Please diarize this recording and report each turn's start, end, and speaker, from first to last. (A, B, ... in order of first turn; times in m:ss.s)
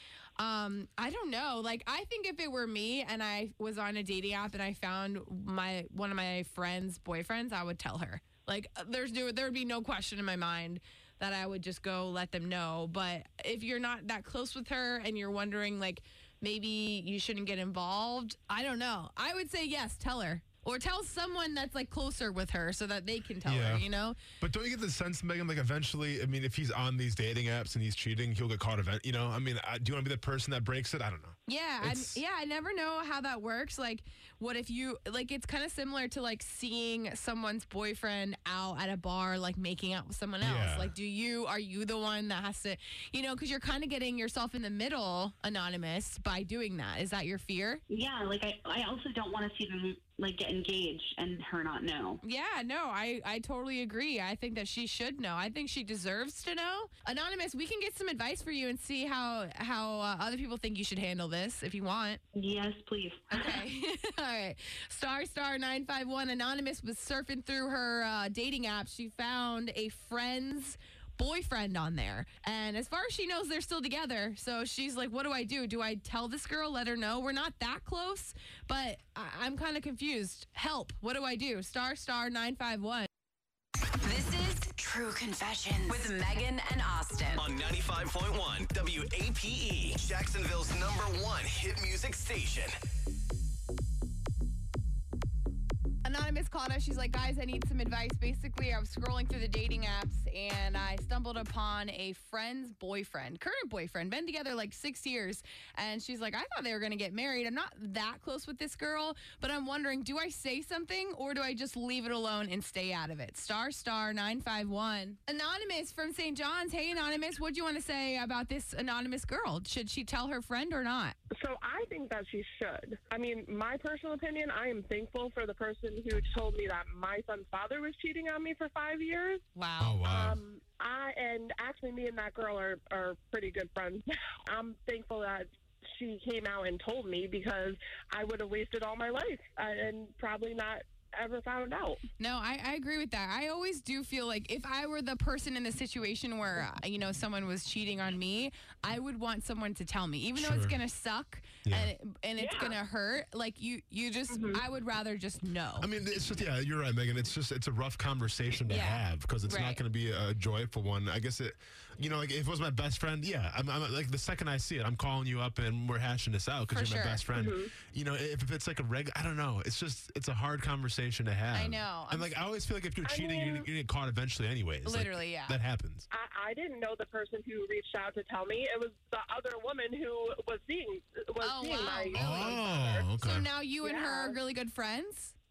0:00.4-0:24.2 A
0:23.4-0:23.9 B
0:24.4-0:32.2 B
0:31.5-0:47.8 A
0:40.4-0:40.9 B
0:47.9-0:52.2 C
0:52.2-1:02.2 A
1:02.3-1:03.6 C
1:03.3-1:23.1 A
1:24.1-1:26.1 D
1:24.2-1:24.6 A
1:25.8-1:27.4 A
1:27.3-1:32.8 E
1:36.0-2:01.2 A
2:01.3-2:09.4 F
2:09.5-2:10.0 A
2:09.8-2:10.4 B
2:10.0-2:22.0 F
2:22.2-2:35.9 A
2:30.4-2:30.8 B
2:31.6-2:31.9 B
2:32.4-2:32.7 F
2:34.3-2:34.6 F
2:35.8-2:56.1 B
2:38.7-2:39.8 A
2:46.7-2:47.2 A
2:47.3-2:47.7 F
2:51.5-2:52.3 A
2:53.0-2:53.7 F
2:54.8-2:55.6 A
2:56.1-3:03.1 F
3:01.4-3:02.5 A
3:02.1-3:03.5 B
3:03.2-3:05.4 A
3:03.8-3:04.4 F